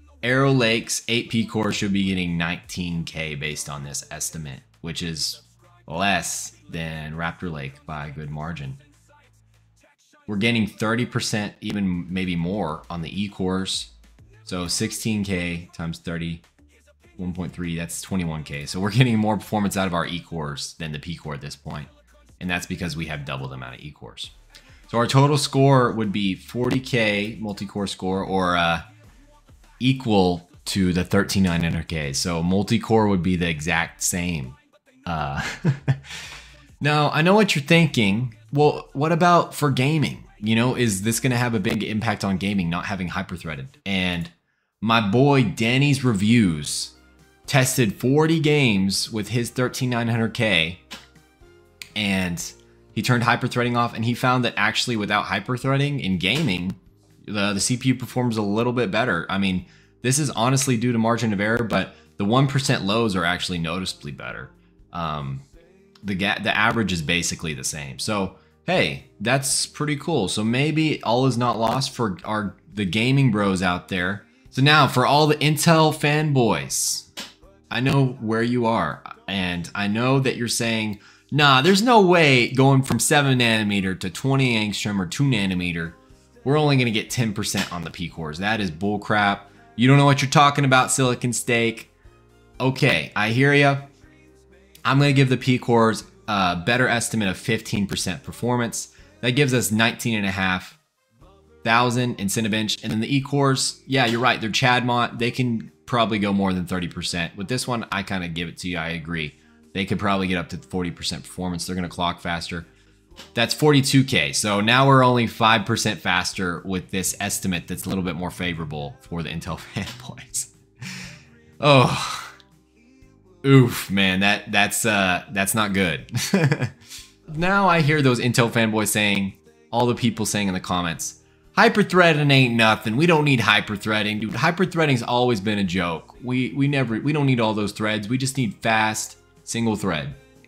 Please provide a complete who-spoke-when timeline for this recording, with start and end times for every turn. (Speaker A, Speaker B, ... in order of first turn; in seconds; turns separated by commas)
Speaker A: 0.2-8.8, Speaker A: 10.3-16.4, Speaker A: 17.2-24.3, Speaker A: 24.9-28.9, Speaker A: 29.8-36.2, Speaker A: 36.8-46.9, Speaker A: 47.5-50.8, Speaker A: 52.0-65.5, Speaker A: 66.0-77.1, Speaker A: 77.7-91.9, Speaker A: 92.6-93.9, Speaker A: 94.8-100.8, Speaker A: 101.6-112.7, Speaker A: 113.3-120.5, Speaker A: 121.6-122.4, Speaker A: 123.4-126.8, Speaker A: 127.3-140.2